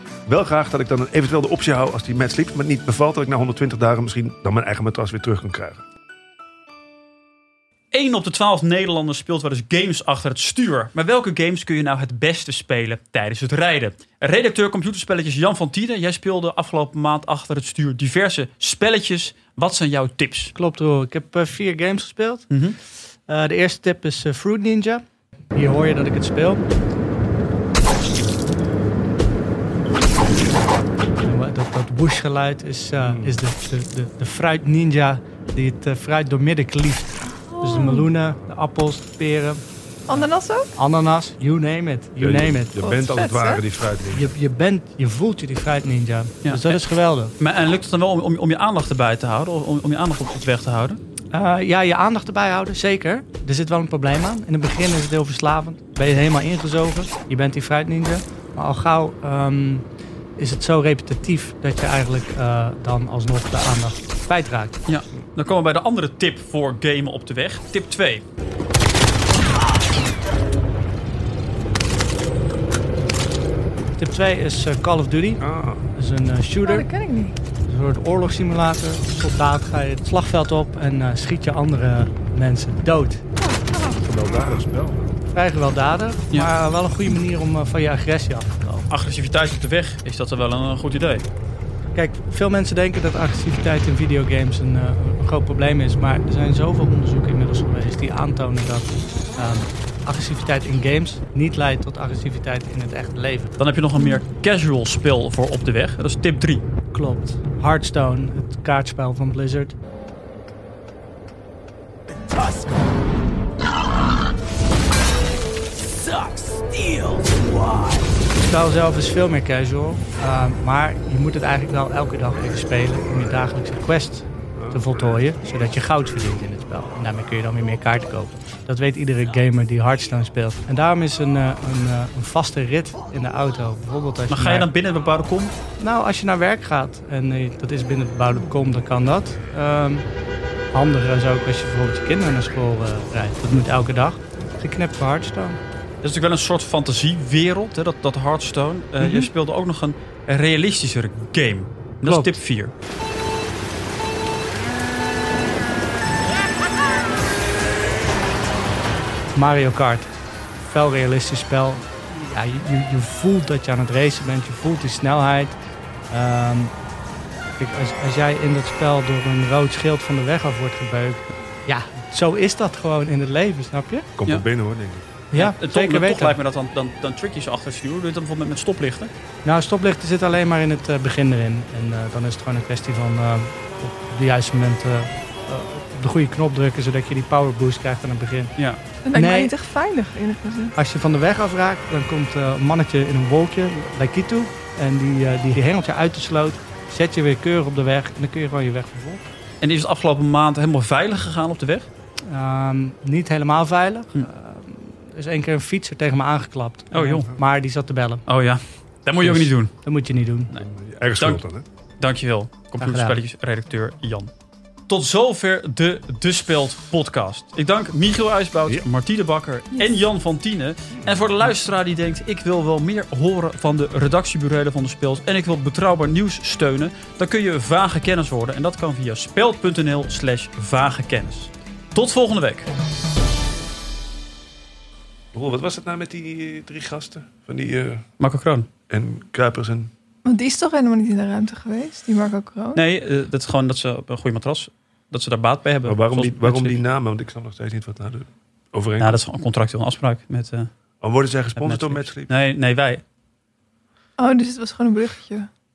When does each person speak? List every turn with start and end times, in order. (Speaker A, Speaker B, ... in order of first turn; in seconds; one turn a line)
Speaker A: 0.2-5.8
Speaker B: 7.9-20.5
Speaker C: 20.5-22.5
Speaker B: 22.5-22.8
Speaker C: 23.3-26.6
Speaker C: 31.2-42.8
Speaker A: 33.0-33.4
Speaker D: 37.3-38.1
Speaker D: 40.1-40.7
Speaker A: 42.2-44.3
Speaker D: 42.8-43.6
Speaker C: 44.1-47.3
Speaker B: 46.4-46.8
Speaker B: 47.4-51.0
Speaker C: 51.3-59.8
Speaker C: 60.4-64.8
Speaker B: 64.8-68.2
Speaker C: 74.0-76.9
Speaker A: 75.4-75.8
Speaker D: 76.6-77.4
Speaker C: 77.6-83.2
Speaker D: 83.4-84.0
Speaker A: 84.0-85.1
Speaker C: 85.3-88.9
Speaker B: 88.9-91.2
Speaker C: 91.9-103.5
Speaker B: 103.6-106.6
Speaker C: 106.9-109.8
Speaker C: 118.4-134.7
Speaker A: 124.6-124.8
Speaker B: 134.3-135.5
Speaker C: 135.8-140.0
Speaker C: 140.7-145.6
Speaker B: 146.0-152.7
Speaker C: 149.0-149.3
Speaker C: 152.0-152.4
Speaker C: 159.3-165.6
Speaker C: 166.1-166.7
Speaker C: 167.6-174.1
Speaker A: 174.2-175.1
Speaker C: 175.3-176.4
Speaker B: 175.3-179.1
Speaker C: 179.4-188.5
Speaker D: 189.0-190.7
Speaker C: 189.1-189.5
Speaker C: 190.7-199.3
Speaker B: 199.6-201.9
Speaker C: 202.3-208.2
Speaker B: 206.9-207.3
Speaker B: 208.3-209.7
Speaker C: 209.2-210.5
Speaker A: 210.5-211.7
Speaker B: 211.2-211.4
Speaker B: 212.0-214.3
Speaker C: 212.8-213.2
Speaker B: 214.9-232.7
Speaker A: 235.3-238.1
Speaker B: 238.2-238.7
Speaker A: 238.9-239.9
Speaker D: 240.2-242.8
Speaker B: 242.7-246.8
Speaker A: 245.8-249.2
Speaker B: 249.0-250.7
Speaker A: 251.0-252.3
Speaker B: 251.6-253.0
Speaker D: 254.2-255.5